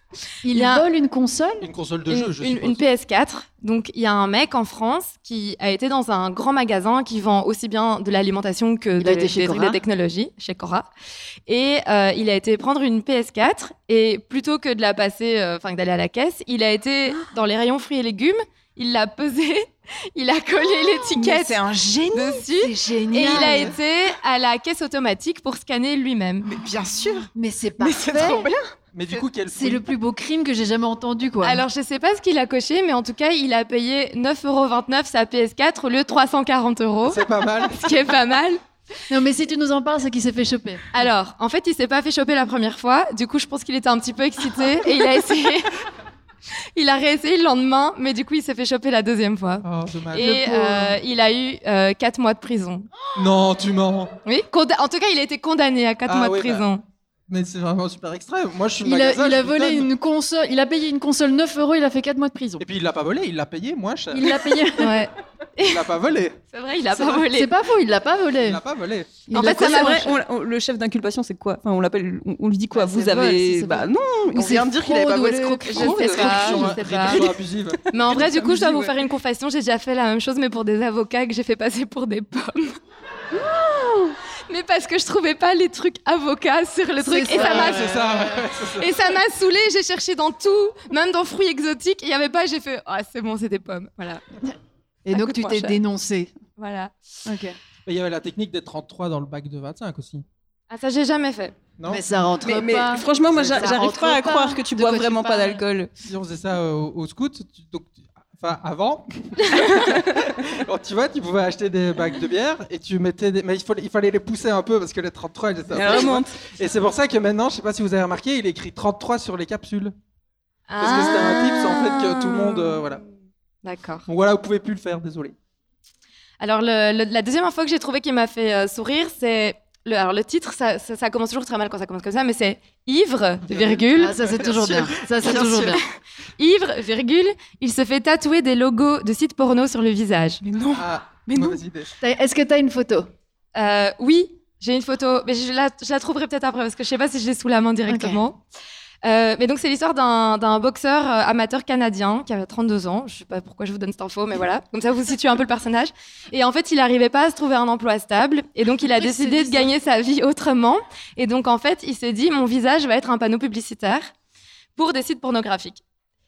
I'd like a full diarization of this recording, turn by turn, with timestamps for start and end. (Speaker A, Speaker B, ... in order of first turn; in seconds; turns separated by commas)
Speaker A: 0.4-1.7, Speaker B: 0.5-0.9, Speaker C: 1.6-2.9, Speaker B: 2.1-10.9, Speaker A: 9.0-9.8, Speaker B: 11.5-21.6, Speaker D: 21.1-22.4, Speaker B: 22.1-26.5, Speaker A: 22.4-23.8, Speaker C: 23.3-23.6, Speaker D: 26.4-28.7, Speaker A: 27.4-28.5, Speaker C: 28.9-29.9, Speaker A: 29.5-31.6, Speaker B: 31.4-38.6, Speaker C: 37.1-37.9, Speaker A: 39.1-40.9, Speaker B: 40.9-45.8, Speaker B: 46.8-52.9, Speaker C: 49.6-50.4, Speaker A: 50.2-51.0, Speaker C: 53.1-54.1, Speaker B: 54.3-56.8, Speaker C: 56.1-56.7, Speaker C: 57.3-59.9, Speaker A: 58.8-62.6, Speaker C: 62.6-64.5, Speaker A: 64.1-65.1, Speaker B: 64.8-65.9, Speaker C: 65.7-66.4, Speaker B: 66.5-67.5, Speaker A: 67.2-68.6, Speaker C: 68.4-69.2, Speaker A: 69.3-70.0, Speaker B: 69.3-70.2, Speaker D: 69.3-77.4, Speaker A: 72.8-76.6, Speaker B: 72.9-73.3, Speaker B: 75.7-77.3, Speaker C: 75.8-79.0, Speaker B: 77.9-82.8, Speaker D: 78.0-78.2, Speaker D: 83.3-84.1, Speaker B: 84.5-94.2, Speaker A: 87.0-88.2, Speaker C: 87.3-88.9, Speaker A: 95.0-96.3, Speaker B: 95.1-95.8, Speaker B: 96.6-96.9, Speaker A: 97.3-97.6, Speaker C: 97.9-100.2, Speaker B: 100.7-101.6, Speaker A: 101.9-105.6, Speaker D: 102.4-105.9, Speaker C: 103.3-103.8, Speaker C: 106.0-119.9, Speaker D: 109.8-110.0, Speaker D: 115.7-116.5, Speaker B: 120.7-122.9, Speaker C: 120.8-123.0, Speaker B: 123.6-124.0, Speaker C: 124.1-125.3, Speaker B: 126.4-134.3, Speaker C: 133.5-134.8, Speaker A: 133.9-135.8, Speaker D: 135.3-135.7, Speaker B: 135.3-135.7, Speaker B: 136.4-140.4, Speaker D: 140.4-141.6, Speaker C: 140.8-141.9, Speaker A: 142.0-143.1, Speaker B: 143.6-148.4, Speaker A: 147.9-148.2, Speaker B: 149.0-164.1, Speaker A: 158.9-159.7, Speaker B: 164.8-165.8